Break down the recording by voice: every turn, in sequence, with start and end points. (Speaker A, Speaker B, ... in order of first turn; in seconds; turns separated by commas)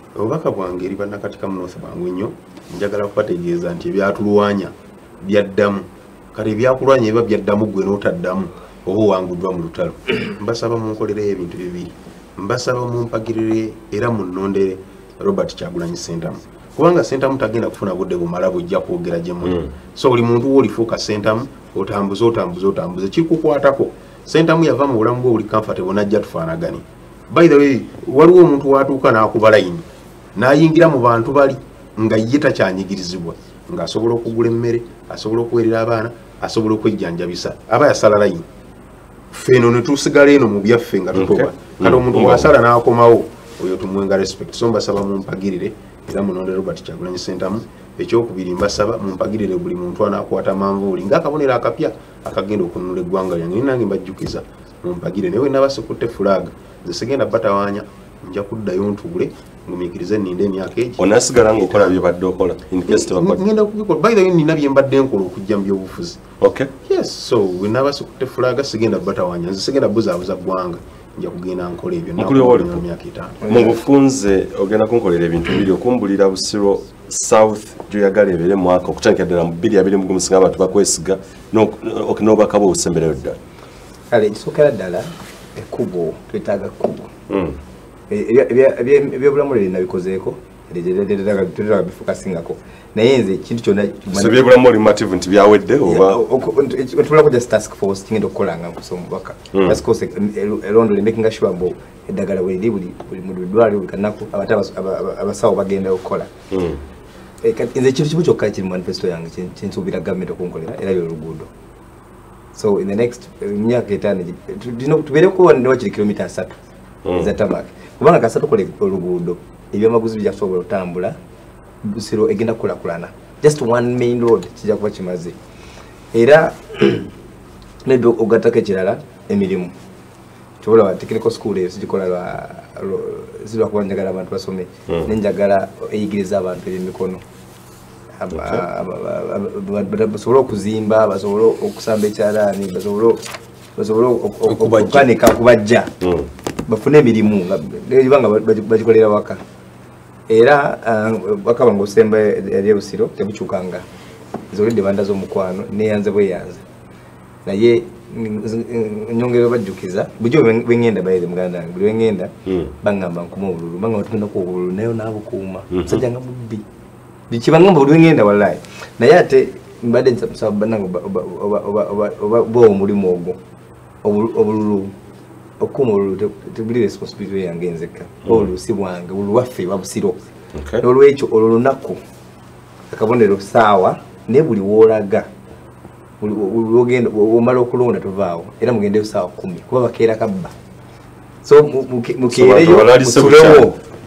Speaker A: 0.1-29.8, Speaker B: 19.4-19.7, Speaker A: 30.4-38.5, Speaker A: 39.3-62.0, Speaker B: 41.1-42.5, Speaker B: 61.0-63.4, Speaker A: 62.9-66.2, Speaker B: 66.4-66.7, Speaker A: 66.8-73.6, Speaker B: 72.2-72.8, Speaker B: 73.4-83.4, Speaker C: 73.5-73.7, Speaker C: 84.1-87.1, Speaker B: 87.3-87.6, Speaker C: 88.1-94.4, Speaker B: 94.1-96.2, Speaker C: 95.9-106.3, Speaker B: 99.5-99.8, Speaker B: 106.5-106.8, Speaker C: 107.4-111.5, Speaker C: 112.5-116.6, Speaker B: 117.0-117.3, Speaker C: 117.1-121.2, Speaker C: 121.8-125.4, Speaker C: 126.1-127.1, Speaker C: 127.8-129.7, Speaker C: 130.6-137.2, Speaker C: 138.2-143.2, Speaker B: 138.3-138.6, Speaker C: 143.8-145.9, Speaker B: 144.5-145.1, Speaker B: 146.0-146.3, Speaker C: 146.7-149.4, Speaker C: 150.3-153.8, Speaker C: 154.5-156.6, Speaker C: 157.4-166.6, Speaker B: 165.7-166.0, Speaker C: 167.3-173.4, Speaker C: 174.0-174.9, Speaker C: 175.6-180.2, Speaker B: 180.5-180.8, Speaker C: 180.8-182.0, Speaker C: 182.9-185.3, Speaker C: 186.2-190.5, Speaker C: 191.4-193.8, Speaker B: 192.3-193.7